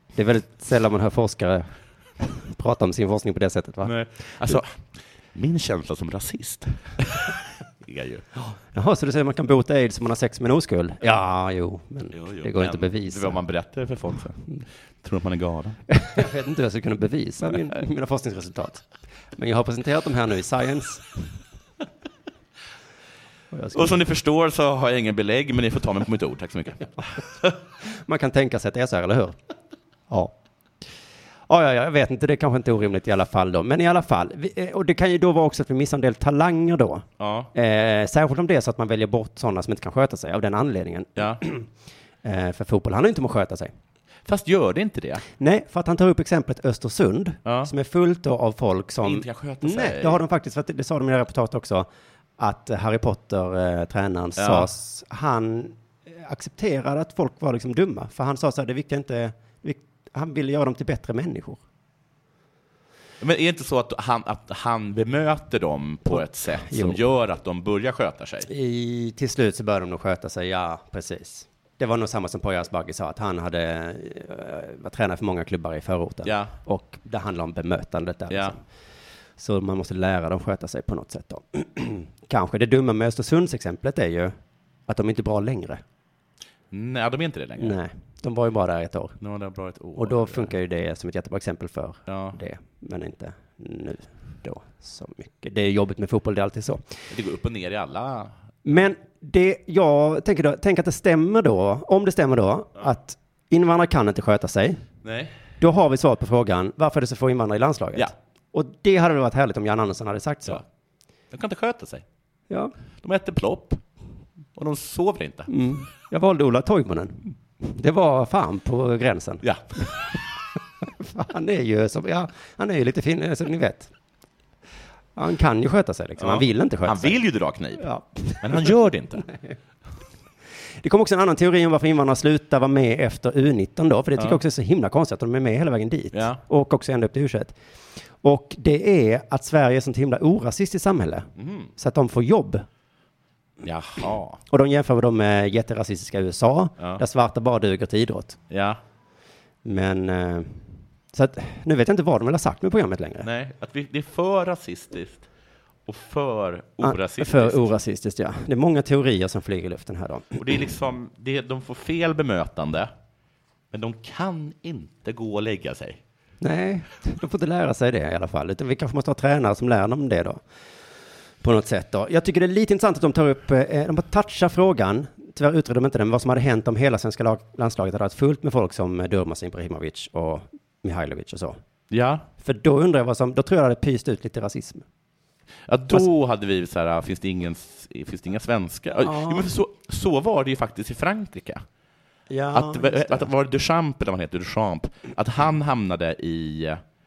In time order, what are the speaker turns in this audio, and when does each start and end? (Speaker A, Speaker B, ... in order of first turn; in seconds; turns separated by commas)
Speaker A: 0.1-3.9, Speaker B: 3.8-8.2, Speaker A: 8.4-13.4, Speaker B: 12.1-14.5, Speaker B: 15.0-15.8, Speaker A: 15.9-21.3, Speaker A: 23.5-24.0, Speaker B: 23.7-27.5, Speaker A: 27.8-29.4, Speaker A: 30.1-30.4, Speaker A: 31.5-41.7, Speaker B: 37.2-37.5, Speaker B: 41.2-41.4, Speaker A: 42.2-43.7, Speaker B: 44.3-45.2, Speaker A: 45.4-61.6, Speaker B: 47.5-47.7, Speaker B: 49.0-50.2, Speaker B: 54.4-54.7, Speaker B: 63.2-68.5, Speaker A: 66.1-67.0, Speaker A: 68.5-78.6, Speaker B: 76.2-76.5, Speaker B: 78.3-78.5, Speaker A: 79.4-84.3, Speaker A: 84.9-85.8, Speaker B: 86.7-87.8, Speaker A: 87.6-89.2, Speaker B: 89.2-90.5, Speaker A: 90.0-96.9, Speaker B: 92.1-92.4, Speaker B: 97.1-98.3, Speaker A: 98.7-104.8, Speaker B: 105.0-105.4, Speaker A: 105.6-110.6, Speaker B: 111.3-112.0, Speaker B: 113.0-113.8, Speaker B: 114.6-115.5, Speaker A: 115.5-119.9, Speaker B: 119.4-119.8, Speaker A: 120.8-123.9, Speaker A: 125.2-127.2, Speaker B: 126.2-127.9, Speaker A: 127.8-129.6, Speaker B: 128.4-129.3, Speaker A: 130.8-137.6, Speaker B: 136.1-136.4, Speaker A: 138.2-142.7, Speaker B: 141.4-141.7, Speaker B: 143.6-144.4, Speaker A: 144.5-148.4, Speaker B: 148.5-148.8, Speaker A: 149.6-153.3, Speaker B: 153.2-155.3, Speaker B: 155.9-157.7, Speaker A: 156.8-160.4, Speaker B: 160.4-162.9, Speaker B: 163.7-166.0, Speaker A: 166.4-170.4, Speaker A: 171.4-181.6, Speaker B: 181.9-182.3, Speaker A: 182.4-184.9, Speaker B: 185.7-191.6, Speaker A: 189.0-189.5, Speaker A: 192.3-193.3, Speaker B: 192.5-196.8